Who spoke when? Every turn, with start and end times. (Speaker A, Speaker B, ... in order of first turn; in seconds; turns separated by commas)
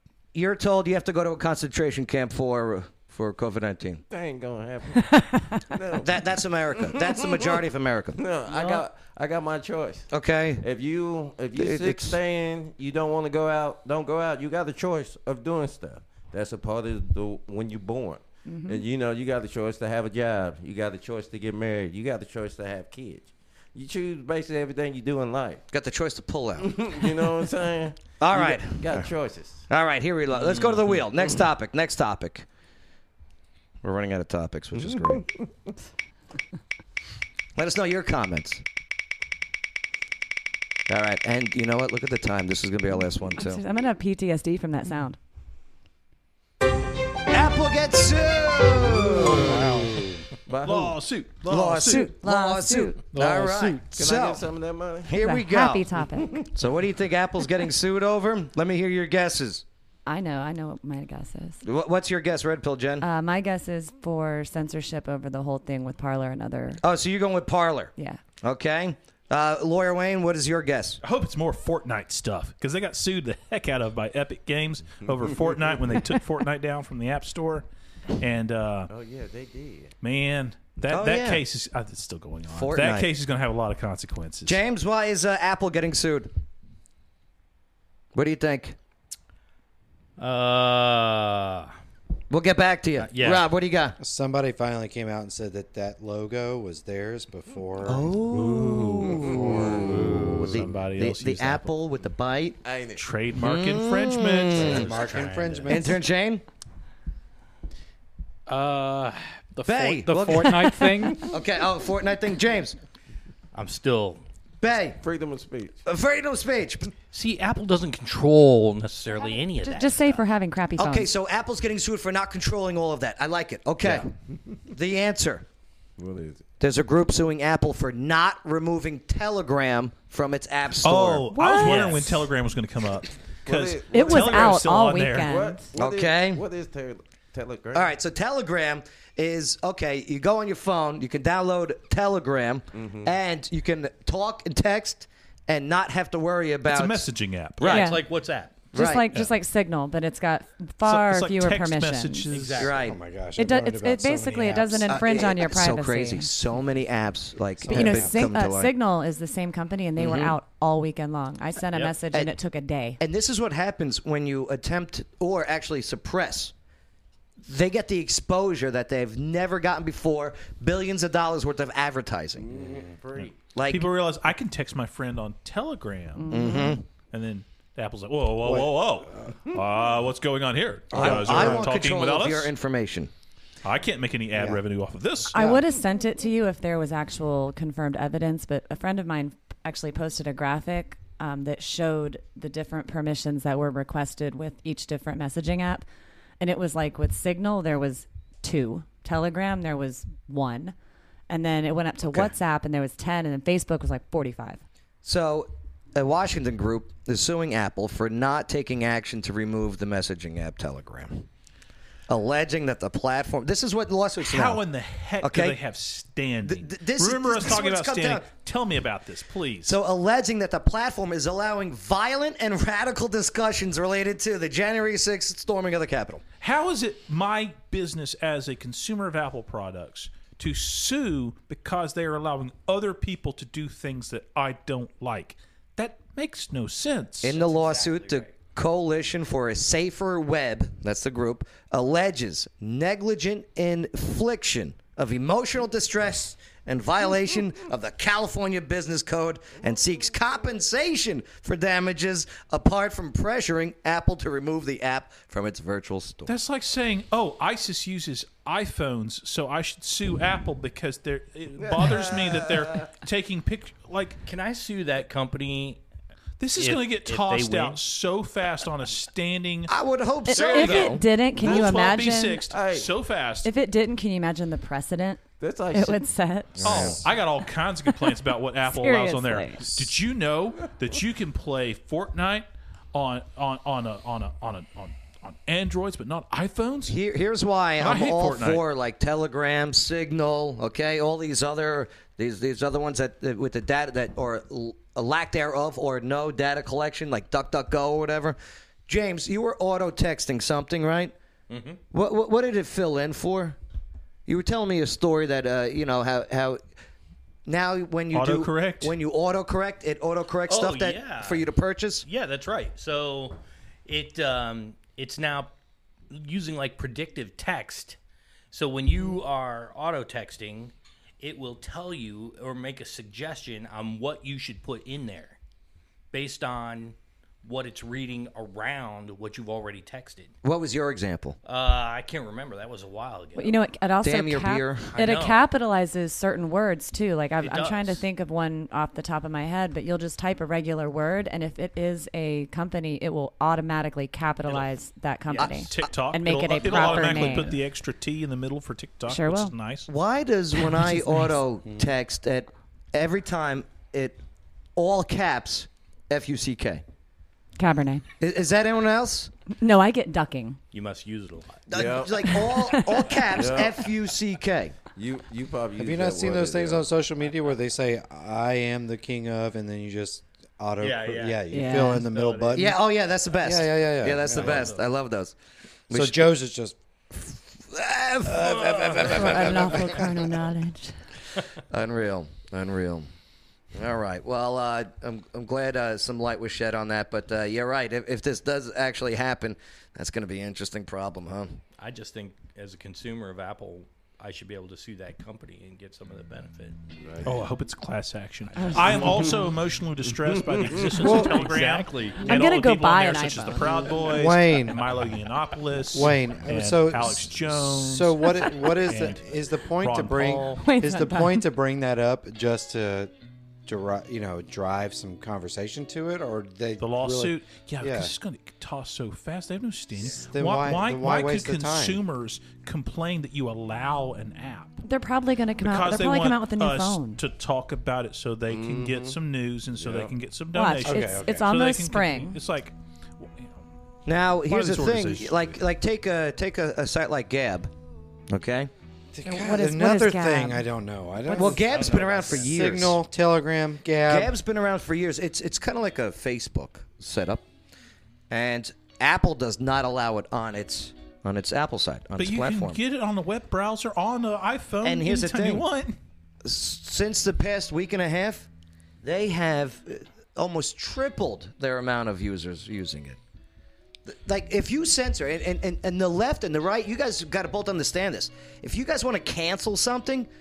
Speaker A: 0.3-4.0, Speaker B: 4.1-5.1, Speaker B: 5.7-7.6, Speaker A: 6.0-8.2, Speaker B: 8.1-10.1, Speaker A: 10.1-10.6, Speaker B: 10.6-25.6, Speaker A: 11.5-12.2, Speaker C: 18.4-18.8, Speaker A: 25.7-26.7, Speaker B: 26.6-29.7, Speaker A: 28.2-29.1, Speaker A: 29.7-32.5, Speaker B: 30.4-31.4, Speaker A: 33.8-35.2, Speaker B: 34.9-35.2, Speaker A: 37.5-38.6, Speaker A: 40.9-43.6, Speaker C: 43.4-45.2, Speaker A: 47.3-49.7, Speaker D: 49.4-50.2, Speaker B: 50.5-51.0, Speaker E: 50.6-52.1, Speaker A: 51.5-54.4, Speaker C: 51.8-53.0, Speaker F: 53.1-53.9, Speaker B: 53.9-55.1, Speaker A: 55.0-55.8, Speaker C: 55.1-56.5, Speaker B: 56.2-56.4, Speaker A: 56.5-59.6, Speaker C: 60.0-61.6, Speaker A: 61.6-63.0, Speaker C: 63.0-66.8, Speaker A: 66.8-71.0, Speaker E: 71.0-77.7, Speaker B: 75.0-75.6, Speaker E: 78.2-78.9, Speaker B: 78.9-79.9, Speaker E: 80.0-84.6, Speaker A: 80.9-81.4, Speaker A: 82.5-83.1, Speaker A: 84.4-86.3, Speaker A: 88.1-88.8, Speaker G: 90.2-91.7, Speaker A: 92.3-94.0, Speaker G: 93.0-93.4, Speaker D: 94.0-98.1, Speaker A: 97.8-102.6, Speaker D: 99.0-100.2, Speaker B: 99.0-100.4, Speaker E: 100.0-101.7, Speaker B: 102.6-103.0, Speaker E: 103.0-104.7, Speaker A: 103.4-104.8, Speaker D: 104.5-106.0, Speaker G: 104.7-105.7, Speaker A: 105.7-106.4, Speaker F: 108.5-111.3, Speaker A: 109.6-112.8, Speaker G: 113.5-114.2, Speaker A: 114.6-115.0, Speaker B: 115.0-115.8, Speaker A: 115.8-116.9, Speaker G: 117.1-120.2, Speaker C: 119.6-121.1, Speaker A: 120.8-124.1, Speaker A: 124.7-125.5, Speaker B: 126.0-126.4, Speaker A: 126.6-131.9, Speaker E: 130.8-135.3, Speaker C: 131.3-132.2, Speaker B: 133.4-137.9, Speaker C: 133.9-135.7, Speaker A: 135.8-136.4, Speaker A: 137.7-147.0, Speaker B: 142.7-143.1, Speaker E: 146.7-147.9, Speaker G: 147.6-148.5, Speaker C: 147.6-148.0, Speaker A: 148.7-149.1, Speaker C: 148.7-152.3, Speaker E: 150.8-152.7, Speaker G: 152.3-152.8, Speaker A: 152.6-153.0, Speaker D: 152.8-155.2, Speaker C: 153.4-156.3, Speaker A: 154.9-158.7, Speaker D: 157.6-158.2, Speaker C: 157.7-163.0, Speaker A: 160.0-160.3, Speaker A: 163.0-166.5, Speaker A: 167.4-172.5, Speaker B: 172.4-173.4, Speaker D: 172.5-173.0, Speaker E: 173.2-182.5, Speaker A: 173.5-173.9, Speaker C: 176.2-176.8, Speaker A: 176.3-176.8, Speaker D: 178.4-178.7, Speaker D: 180.9-181.7, Speaker A: 180.9-183.1, Speaker E: 183.6-185.3, Speaker D: 184.3-184.6, Speaker C: 185.3-195.8, Speaker D: 185.3-185.6, Speaker C: 196.4-200.7, Speaker C: 201.3-204.6, Speaker A: 205.0-211.3, Speaker A: 212.1-214.6, Speaker E: 214.2-219.8, Speaker A: 215.2-215.6, Speaker A: 216.4-218.3, Speaker A: 219.6-226.2, Speaker E: 226.4-237.4, Speaker A: 237.2-256.3, Speaker G: 237.3-238.3, Speaker E: 256.2-264.2, Speaker B: 261.6-262.9, Speaker G: 264.2-265.8, Speaker E: 266.4-269.7, Speaker G: 266.6-267.8, Speaker A: 269.7-271.0, Speaker C: 270.3-272.4, Speaker E: 270.4-273.5, Speaker B: 271.4-272.9, Speaker C: 273.4-276.9, Speaker B: 275.4-276.1, Speaker E: 276.6-287.0, Speaker D: 276.6-277.0, Speaker C: 278.6-279.8, Speaker A: 286.9-301.1, Speaker E: 287.8-288.6, Speaker G: 301.5-301.8, Speaker A: 301.9-303.6, Speaker A: 304.3-306.6, Speaker A: 307.4-312.1, Speaker E: 308.1-308.9, Speaker G: 310.5-311.5, Speaker G: 312.0-315.5, Speaker G: 316.1-318.0, Speaker G: 318.5-325.4, Speaker G: 326.1-330.3, Speaker A: 330.4-331.4, Speaker G: 331.4-333.6, Speaker C: 333.4-347.5, Speaker A: 334.0-334.9, Speaker G: 334.9-335.5, Speaker G: 337.4-338.0, Speaker A: 345.4-345.9, Speaker E: 345.4-349.9, Speaker G: 346.6-347.4, Speaker A: 346.7-347.2, Speaker C: 349.1-349.5, Speaker A: 349.9-354.2, Speaker A: 354.8-356.8, Speaker C: 357.6-358.0, Speaker A: 358.2-359.3, Speaker C: 359.6-360.6, Speaker G: 360.7-361.6, Speaker A: 361.7-364.8, Speaker B: 361.7-362.2, Speaker C: 362.3-363.2, Speaker B: 363.3-363.9, Speaker B: 364.9-366.8, Speaker D: 365.8-372.8, Speaker G: 370.8-372.7, Speaker C: 371.5-372.1, Speaker A: 372.5-375.3, Speaker D: 373.4-374.7, Speaker G: 374.3-374.8, Speaker A: 375.9-376.3, Speaker D: 375.9-377.2, Speaker A: 377.6-380.0, Speaker G: 378.4-379.1, Speaker C: 379.1-380.9, Speaker A: 381.7-383.1, Speaker A: 383.7-391.6, Speaker G: 391.8-396.8, Speaker B: 397.0-397.4, Speaker E: 397.2-410.6, Speaker G: 398.6-399.0, Speaker C: 398.6-399.4, Speaker B: 400.2-400.9, Speaker G: 400.8-402.3, Speaker D: 401.0-401.4, Speaker C: 402.2-404.0, Speaker D: 404.0-404.9, Speaker D: 405.9-413.1, Speaker C: 410.6-411.4, Speaker D: 413.6-418.1, Speaker E: 416.8-424.8, Speaker D: 420.0-422.0, Speaker C: 424.8-427.2, Speaker E: 425.6-433.6, Speaker B: 428.5-430.1, Speaker C: 430.5-432.4, Speaker D: 430.8-431.5, Speaker A: 434.1-437.7, Speaker E: 434.4-435.6, Speaker A: 438.3-438.7, Speaker D: 439.1-444.3, Speaker C: 439.2-440.6, Speaker A: 441.3-443.0, Speaker A: 444.1-447.4, Speaker A: 448.3-452.8, Speaker E: 452.2-455.9, Speaker A: 454.8-455.6, Speaker A: 456.4-458.5, Speaker A: 459.0-463.2, Speaker A: 464.1-470.3